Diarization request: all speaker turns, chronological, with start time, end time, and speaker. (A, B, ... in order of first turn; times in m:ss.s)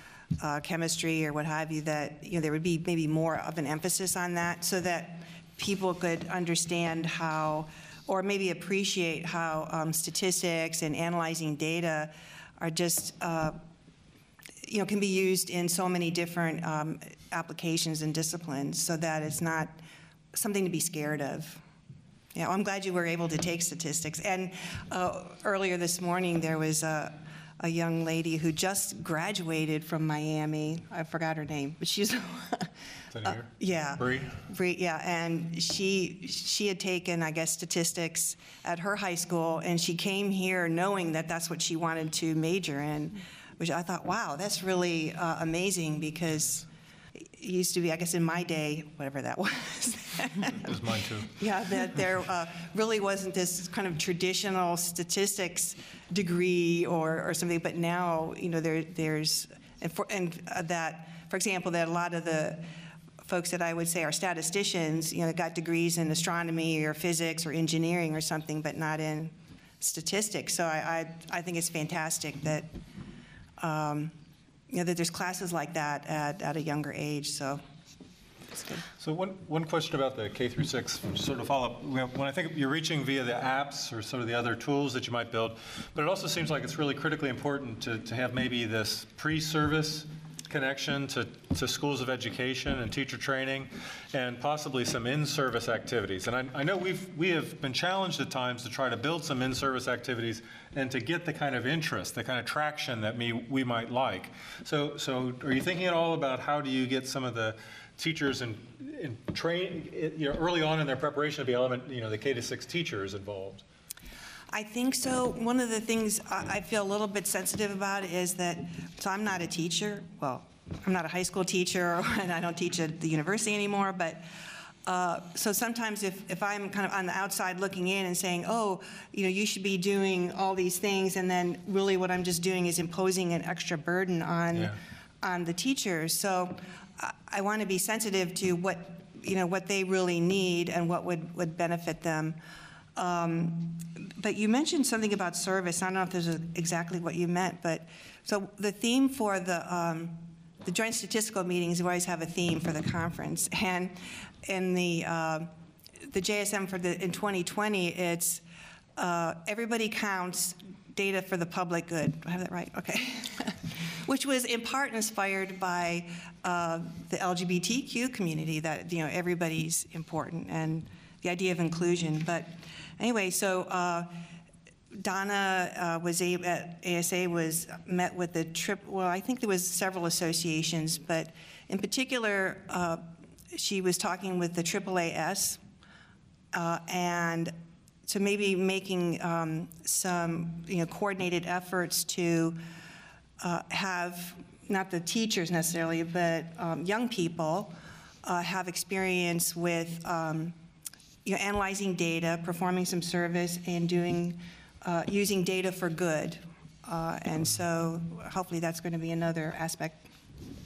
0:00.4-0:13.6 A
0:14.6-0:19.8 A
0:20.3-0:21.6 A
0:22.3-0:32.7 A
0:33.1-0:34.3 B
0:33.3-0:50.7 A
0:50.5-0:51.3 B
0:51.4-1:02.7 A
1:03.2-1:12.7 A
1:13.6-1:14.1 A
1:14.7-1:17.6 A
1:18.5-1:18.8 A
1:19.0-1:53.6 B
1:54.5-2:04.2 A
2:04.8-2:22.4 A
2:14.5-2:14.8 B
2:23.0-2:35.5 A
2:36.1-2:38.4 A
2:39.0-2:54.2 A
2:54.9-3:05.6 A
3:06.5-3:07.5 A
3:08.0-3:12.6 A
3:13.4-3:20.5 A
3:21.2-3:30.0 A